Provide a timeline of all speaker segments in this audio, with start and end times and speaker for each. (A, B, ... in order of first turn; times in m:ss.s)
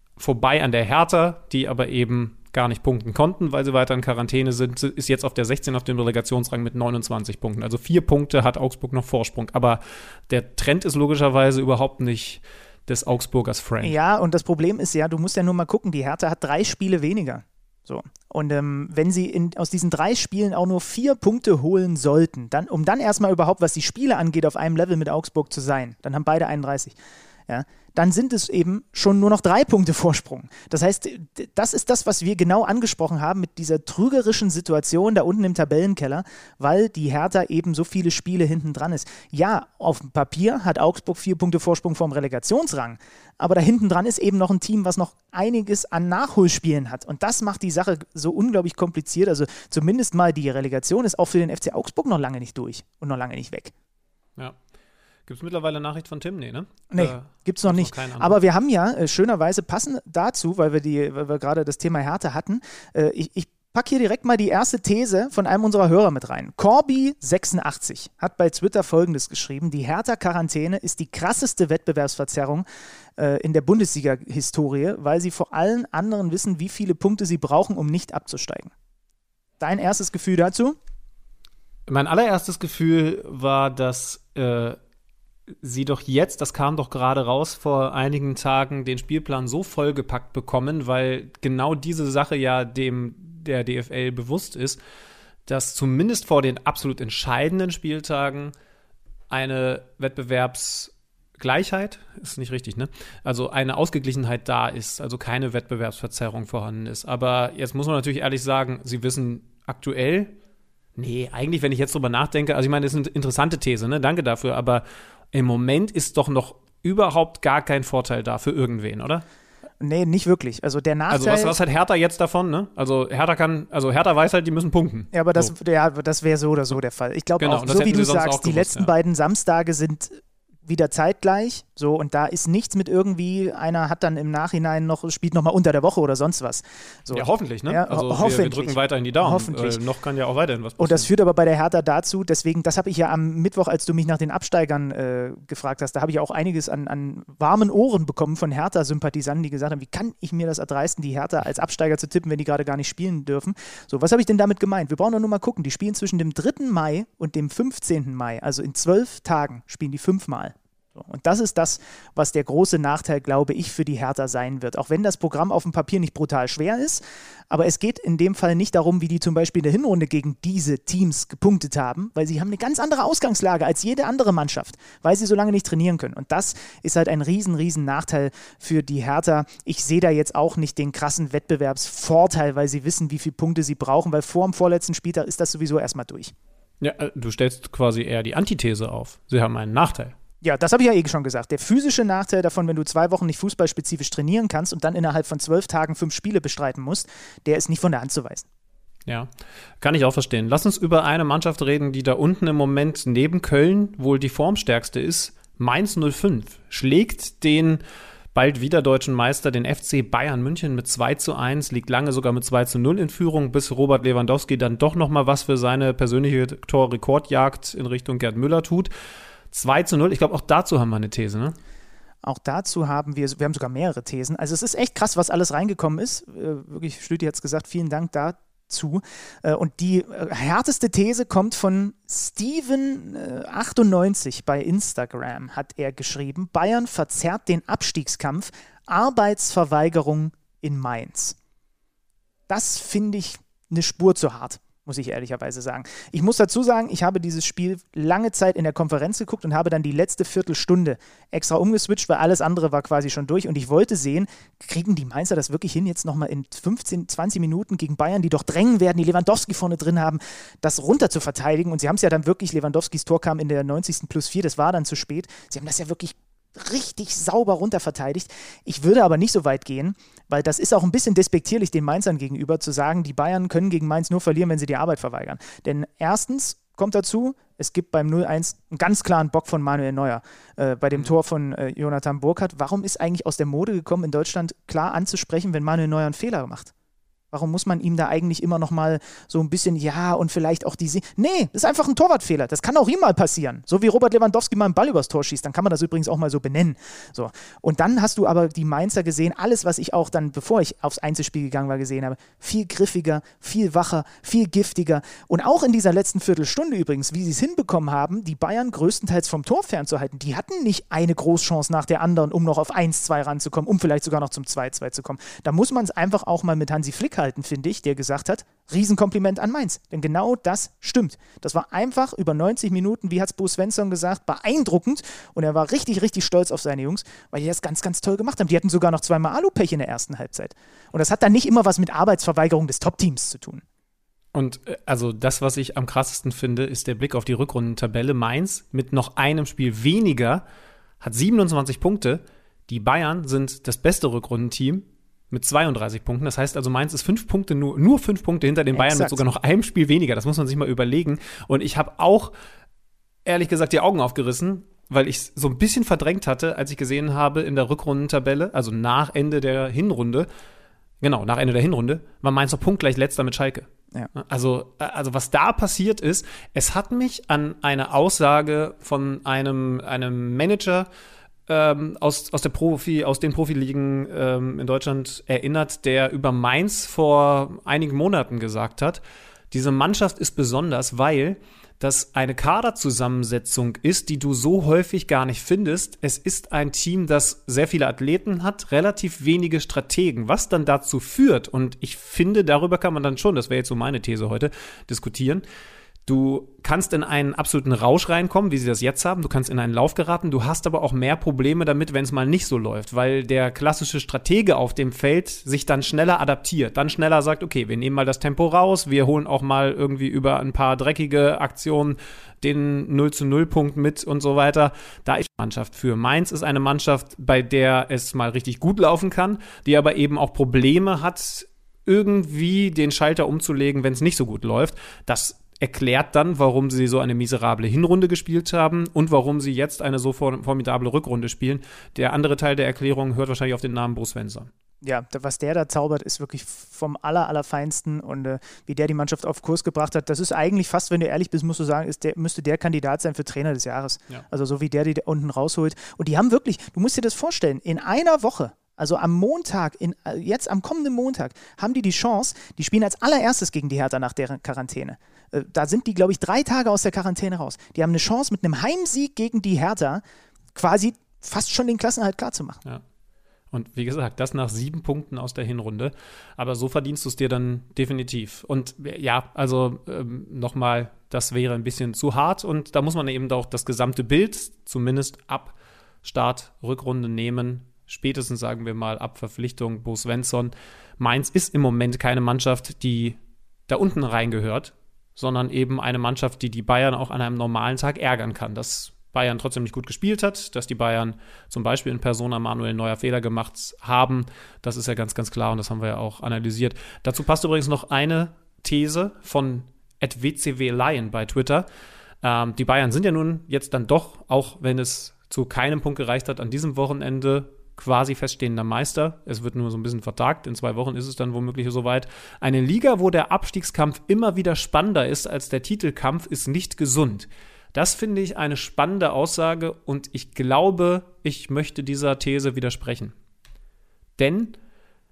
0:00.2-0:14.0 A
0:13.8-0:27.0 B
0:27.5-0:53.7 B
0:55.3-0:58.4 A
0:56.9-1:12.6 B
1:13.2-1:18.7 B
1:19.6-1:20.8 B
1:21.9-1:24.8 A
1:25.6-1:34.8 A
1:35.5-1:38.5 A
1:39.3-1:50.3 A
1:51.0-1:59.2 A
1:59.8-2:01.6 B
2:01.1-2:05.5 A
2:05.1-2:19.8 B
2:07.4-2:08.9 A
2:17.1-2:21.1 A
2:20.8-3:06.3 B
3:06.8-3:10.1 A
3:10.4-3:18.5 B
3:19.8-3:27.8 A
3:28.3-3:38.9 A
3:39.5-3:41.6 A
3:42.2-4:01.4 B
4:02.5-4:46.7 B
4:47.3-5:33.6 B
5:34.3-5:40.4 A
5:41.0-5:52.3 A
5:48.7-5:49.2 B
5:53.3-6:00.3 A
6:01.0-6:10.9 A
6:11.5-6:35.4 A
6:36.1-7:14.5 A
7:14.8-7:40.0 B
7:40.5-7:42.6 B
7:43.5-8:21.6 A
8:22.2-8:43.1 A
8:44.2-8:44.6 A